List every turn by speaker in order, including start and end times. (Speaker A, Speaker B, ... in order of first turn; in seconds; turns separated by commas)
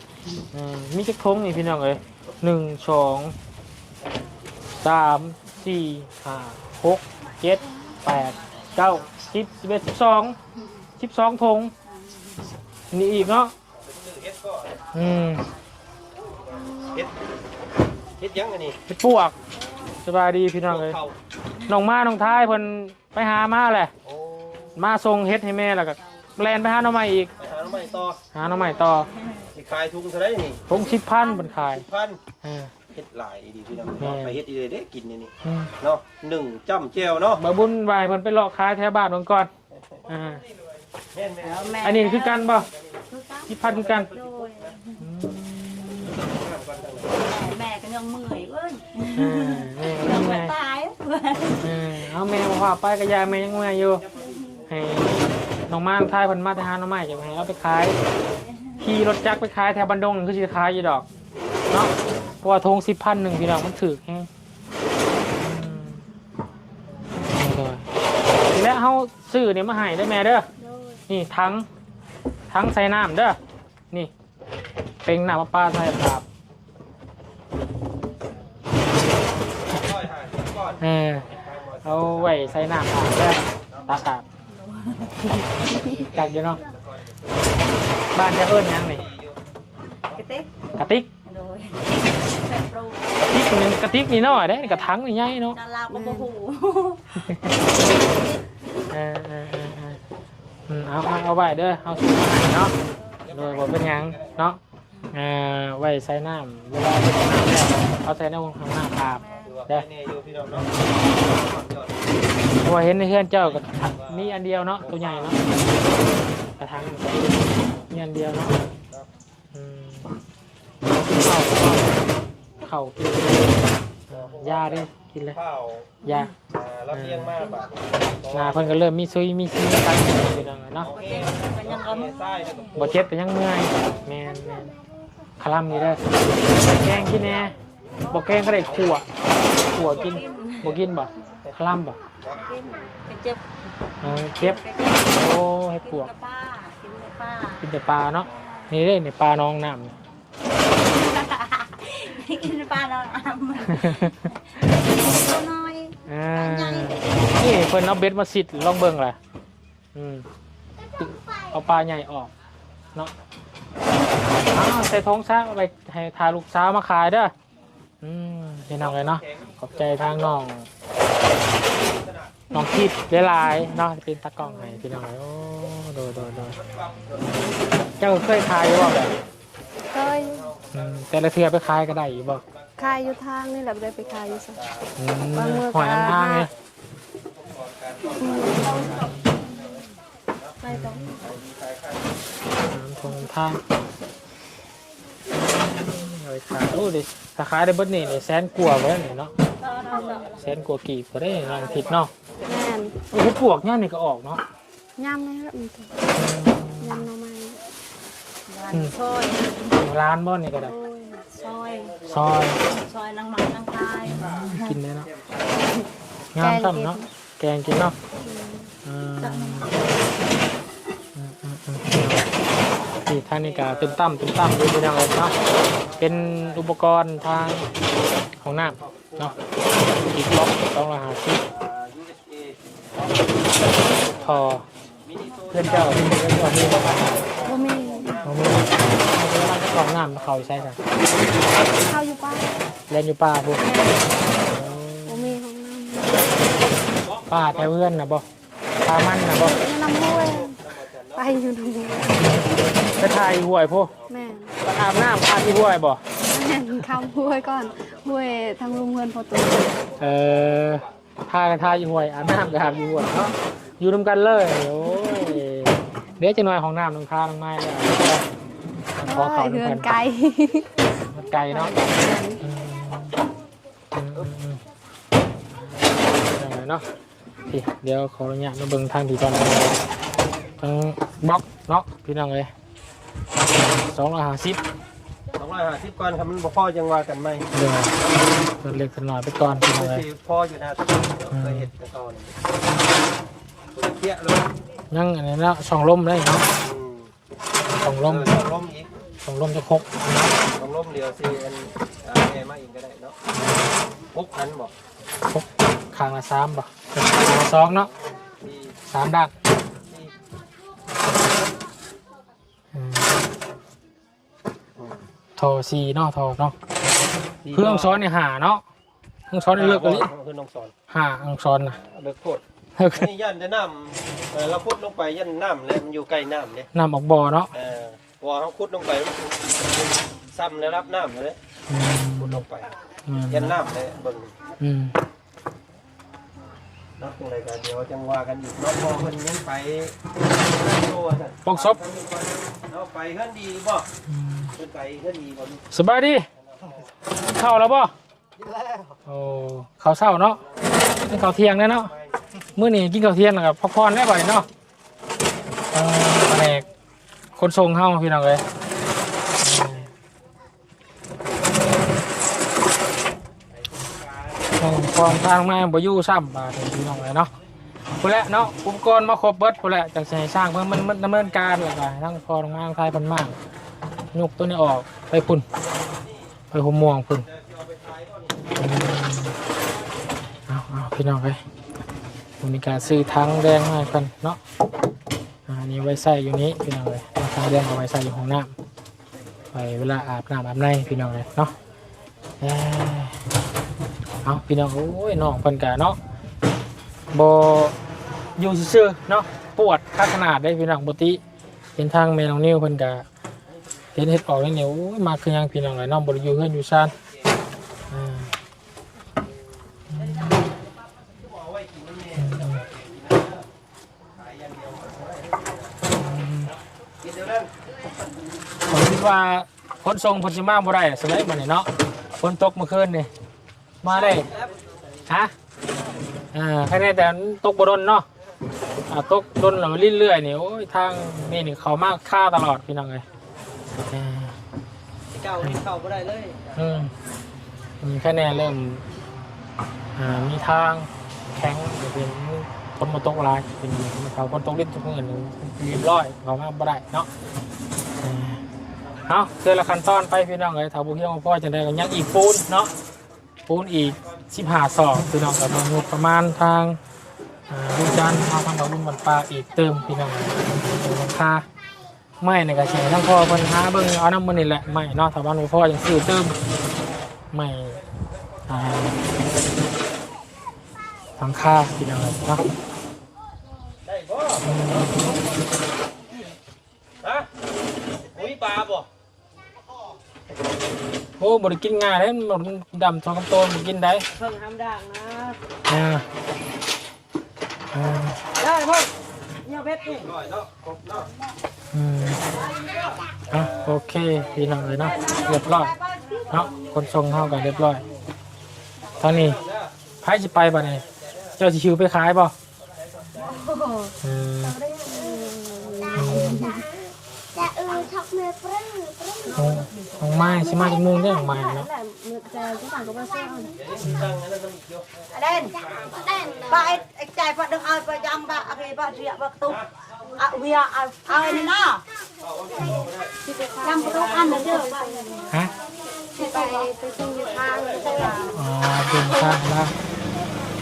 Speaker A: 0.5-3.4, Speaker A: 4.8-10.4, Speaker A: 11.0-11.7, Speaker A: 12.9-13.5, Speaker B: 13.8-14.8, Speaker A: 14.9-15.4, Speaker B: 16.5-17.1, Speaker B: 18.2-18.8, Speaker A: 18.9-19.3, Speaker A: 20.0-21.0, Speaker B: 20.7-21.1, Speaker A: 21.7-23.9, Speaker B: 24.0-24.8, Speaker A: 24.8-27.3, Speaker B: 27.4-28.2, Speaker A: 28.3-29.1, Speaker C: 28.4-29.5, Speaker B: 29.5-30.7, Speaker A: 30.7-31.9, Speaker C: 30.7-31.5, Speaker B: 31.6-32.2, Speaker A: 32.4-32.7, Speaker B: 32.9-37.4, Speaker A: 34.0-34.4, Speaker A: 35.4-35.7, Speaker A: 37.4-39.5, Speaker B: 39.8-40.3, Speaker A: 40.1-40.4, Speaker B: 41.1-41.8, Speaker C: 41.4-45.0, Speaker A: 41.8-42.7, Speaker A: 43.5-44.1, Speaker B: 43.6-44.7, Speaker A: 45.0-46.2, Speaker B: 46.1-47.2, Speaker C: 47.1-51.8, Speaker A: 49.1-50.5, Speaker A: 51.6-54.0, Speaker B: 54.1-54.8, Speaker C: 54.2-54.6, Speaker A: 54.7-58.0, Speaker C: 58.3-58.8, Speaker A: 58.8-61.0, Speaker A: 61.7-64.3, Speaker A: 65.4-66.0, Speaker A: 67.2-67.9, Speaker A: 68.5-70.5, Speaker A: 71.1-71.7, Speaker A: 72.5-73.4, Speaker A: 75.0-76.2, Speaker B: 79.7-82.8, Speaker A: 80.8-81.3, Speaker A: 81.8-84.2, Speaker C: 84.5-85.3, Speaker B: 85.7-87.7, Speaker A: 85.8-86.6, Speaker A: 88.1-89.0, Speaker B: 88.6-89.4, Speaker C: 90.1-90.5, Speaker A: 90.8-91.1, Speaker C: 91.2-94.9, Speaker A: 93.3-95.6, Speaker C: 95.5-97.2, Speaker D: 95.9-96.3, Speaker A: 97.2-97.6, Speaker A: 98.9-100.0, Speaker A: 100.7-102.8, Speaker B: 103.2-104.4, Speaker A: 103.3-104.6, Speaker A: 105.1-109.8, Speaker C: 109.0-109.5, Speaker B: 109.4-112.2, Speaker A: 110.5-110.9, Speaker A: 112.6-115.5, Speaker B: 113.4-115.6, Speaker A: 116.6-118.6, Speaker A: 119.5-120.1, Speaker A: 120.9-122.0, Speaker A: 122.6-123.6, Speaker A: 124.1-125.4, Speaker B: 124.1-125.9, Speaker A: 126.0-126.3, Speaker B: 126.5-128.8, Speaker A: 126.9-127.5, Speaker A: 128.3-130.9, Speaker B: 130.8-133.0, Speaker C: 130.8-132.7, Speaker A: 132.8-134.7, Speaker A: 135.4-137.5, Speaker B: 135.8-137.4, Speaker A: 138.1-139.1, Speaker B: 138.4-139.2, Speaker A: 139.7-142.0, Speaker C: 139.7-140.8, Speaker B: 142.2-142.9, Speaker C: 142.3-143.4, Speaker A: 144.0-146.1, Speaker C: 144.1-147.6, Speaker A: 147.6-149.9, Speaker C: 150.8-157.1, Speaker A: 153.7-155.2, Speaker A: 156.1-159.2, Speaker A: 159.9-160.2, Speaker A: 161.0-162.3, Speaker A: 164.5-167.3, Speaker A: 168.0-170.7, Speaker B: 168.8-170.4, Speaker B: 171.6-172.4, Speaker A: 172.5-176.6, Speaker B: 176.5-177.5, Speaker A: 178.0-179.2, Speaker D: 179.9-180.5, Speaker B: 180.1-183.1, Speaker A: 180.7-182.4, Speaker D: 182.8-184.6, Speaker B: 184.0-184.9, Speaker A: 185.0-186.5, Speaker D: 185.3-186.5, Speaker B: 187.3-189.8, Speaker D: 188.2-188.9, Speaker A: 188.8-189.1, Speaker B: 190.4-192.2, Speaker C: 190.6-191.0, Speaker A: 190.7-191.1, Speaker A: 192.7-193.6, Speaker A: 195.3-199.3, Speaker C: 199.6-200.4, Speaker B: 199.9-200.5, Speaker A: 200.3-202.1, Speaker B: 201.4-202.5, Speaker D: 202.4-202.9, Speaker A: 203.1-204.4, Speaker D: 205.0-205.9, Speaker A: 206.1-207.1, Speaker D: 206.8-207.6, Speaker C: 208.5-209.8, Speaker A: 209.7-210.8, Speaker D: 210.7-211.2, Speaker C: 211.3-212.0, Speaker B: 212.0-212.2, Speaker A: 212.1-212.6, Speaker C: 212.6-214.7, Speaker A: 214.1-215.1, Speaker A: 216.3-218.0, Speaker D: 216.4-217.1, Speaker D: 218.2-218.7, Speaker A: 218.8-219.8, Speaker C: 219.2-219.9, Speaker A: 221.2-222.2, Speaker A: 223.1-225.4, Speaker B: 223.3-224.3, Speaker B: 225.2-226.7, Speaker A: 226.0-227.7, Speaker A: 228.4-229.4, Speaker B: 228.8-229.5, Speaker A: 229.9-231.4, Speaker B: 231.5-240.9, Speaker A: 234.1-234.7, Speaker A: 235.5-237.3, Speaker D: 237.4-238.2, Speaker A: 238.2-240.8, Speaker D: 241.7-242.7, Speaker A: 242.9-243.6, Speaker D: 243.6-244.1, Speaker A: 244.4-245.4, Speaker D: 245.0-246.4, Speaker B: 246.9-248.0, Speaker A: 247.3-248.2, Speaker A: 248.8-249.6, Speaker D: 249.3-250.6, Speaker B: 249.8-252.1, Speaker D: 251.1-252.5, Speaker A: 252.2-253.9, Speaker D: 254.1-254.5, Speaker A: 254.6-256.0, Speaker D: 256.2-259.8, Speaker B: 259.9-260.9, Speaker A: 260.0-268.2, Speaker B: 261.6-263.1, Speaker A: 269.0-269.9, Speaker D: 269.0-272.4, Speaker A: 271.1-271.7, Speaker A: 272.4-273.1, Speaker A: 273.9-274.6, Speaker A: 275.8-276.8, Speaker A: 277.5-279.8, Speaker A: 280.6-282.5, Speaker A: 283.4-284.6, Speaker B: 285.4-287.5, Speaker A: 287.5-290.0, Speaker B: 289.7-292.4, Speaker A: 291.3-291.7, Speaker B: 293.7-294.5, Speaker A: 294.9-296.5, Speaker B: 296.6-297.1, Speaker A: 297.7-298.4, Speaker B: 298.0-298.9, Speaker A: 299.2-300.3, Speaker B: 300.5-303.2, Speaker A: 303.3-303.7, Speaker B: 304.1-304.7, Speaker A: 305.3-307.9, Speaker B: 308.4-308.8, Speaker A: 308.9-309.3, Speaker B: 309.9-310.1, Speaker A: 312.7-313.1, Speaker B: 314.8-315.1, Speaker A: 315.4-316.6, Speaker B: 317.4-318.0, Speaker A: 317.5-318.6, Speaker A: 319.3-320.1, Speaker B: 319.5-320.7, Speaker A: 320.9-321.8, Speaker B: 321.8-322.4, Speaker A: 322.8-323.1, Speaker B: 322.9-326.7, Speaker A: 326.7-327.5, Speaker B: 327.5-331.4, Speaker A: 331.7-332.4, Speaker B: 332.2-332.7, Speaker A: 333.1-333.5, Speaker B: 333.3-334.4, Speaker A: 334.6-334.9, Speaker B: 337.0-343.9, Speaker A: 341.4-341.8, Speaker A: 344.1-344.5, Speaker B: 344.5-345.6, Speaker A: 345.7-346.3, Speaker B: 346.4-346.9, Speaker A: 347.2-347.9, Speaker A: 349.1-351.9, Speaker B: 350.4-352.1, Speaker A: 352.6-354.5, Speaker A: 355.7-356.6, Speaker A: 357.4-358.4, Speaker A: 359.4-359.9, Speaker B: 363.8-364.5, Speaker A: 364.6-367.3, Speaker A: 368.0-373.4, Speaker A: 374.1-375.4, Speaker A: 376.5-377.2, Speaker B: 377.3-378.5, Speaker A: 378.6-379.4, Speaker A: 380.5-381.4, Speaker A: 382.4-384.4, Speaker A: 385.5-388.5, Speaker A: 389.5-391.5, Speaker A: 392.4-393.2, Speaker A: 394.2-396.0, Speaker A: 397.1-397.7, Speaker A: 398.4-401.2, Speaker A: 401.8-403.1, Speaker A: 403.9-406.9, Speaker A: 407.9-408.3, Speaker A: 409.9-410.4, Speaker B: 411.0-413.5, Speaker A: 412.2-412.6, Speaker B: 414.1-415.8, Speaker A: 415.9-416.5, Speaker B: 417.0-417.5, Speaker A: 418.7-423.1, Speaker A: 423.8-424.3, Speaker B: 423.9-424.7, Speaker A: 425.1-425.3, Speaker A: 426.3-428.1, Speaker A: 428.9-433.0, Speaker A: 433.9-434.4, Speaker B: 435.1-436.6, Speaker A: 436.6-436.9, Speaker A: 437.8-438.9, Speaker A: 439.9-447.1, Speaker A: 448.0-448.4, Speaker A: 449.1-452.7, Speaker A: 453.5-456.8, Speaker A: 457.5-461.4, Speaker A: 462.2-466.4, Speaker A: 467.3-467.8, Speaker A: 468.5-469.0, Speaker A: 471.2-472.4, Speaker B: 473.9-475.3, Speaker A: 474.4-475.2, Speaker B: 477.0-477.3, Speaker B: 478.1-478.9, Speaker A: 481.2-484.1, Speaker A: 485.7-486.1, Speaker A: 487.7-488.2, Speaker C: 489.5-489.9, Speaker B: 490.0-491.1, Speaker A: 491.7-492.2, Speaker A: 493.3-495.7, Speaker C: 495.0-496.5, Speaker A: 496.3-497.8, Speaker A: 499.0-499.4, Speaker B: 499.0-499.7, Speaker A: 500.0-500.9, Speaker A: 501.4-502.3, Speaker D: 503.3-506.7, Speaker A: 504.0-504.6, Speaker A: 505.9-506.5, Speaker D: 507.4-509.6, Speaker C: 507.4-507.9, Speaker A: 509.3-511.7, Speaker D: 510.3-513.6, Speaker B: 513.6-515.0, Speaker A: 513.8-514.2, Speaker C: 515.1-515.7, Speaker D: 516.0-516.4, Speaker C: 516.2-521.9, Speaker B: 522.2-523.1, Speaker A: 522.6-522.9, Speaker D: 523.3-525.3, Speaker C: 523.6-525.2, Speaker C: 526.1-526.7, Speaker D: 526.1-528.3, Speaker C: 527.8-528.3, Speaker A: 528.3-529.7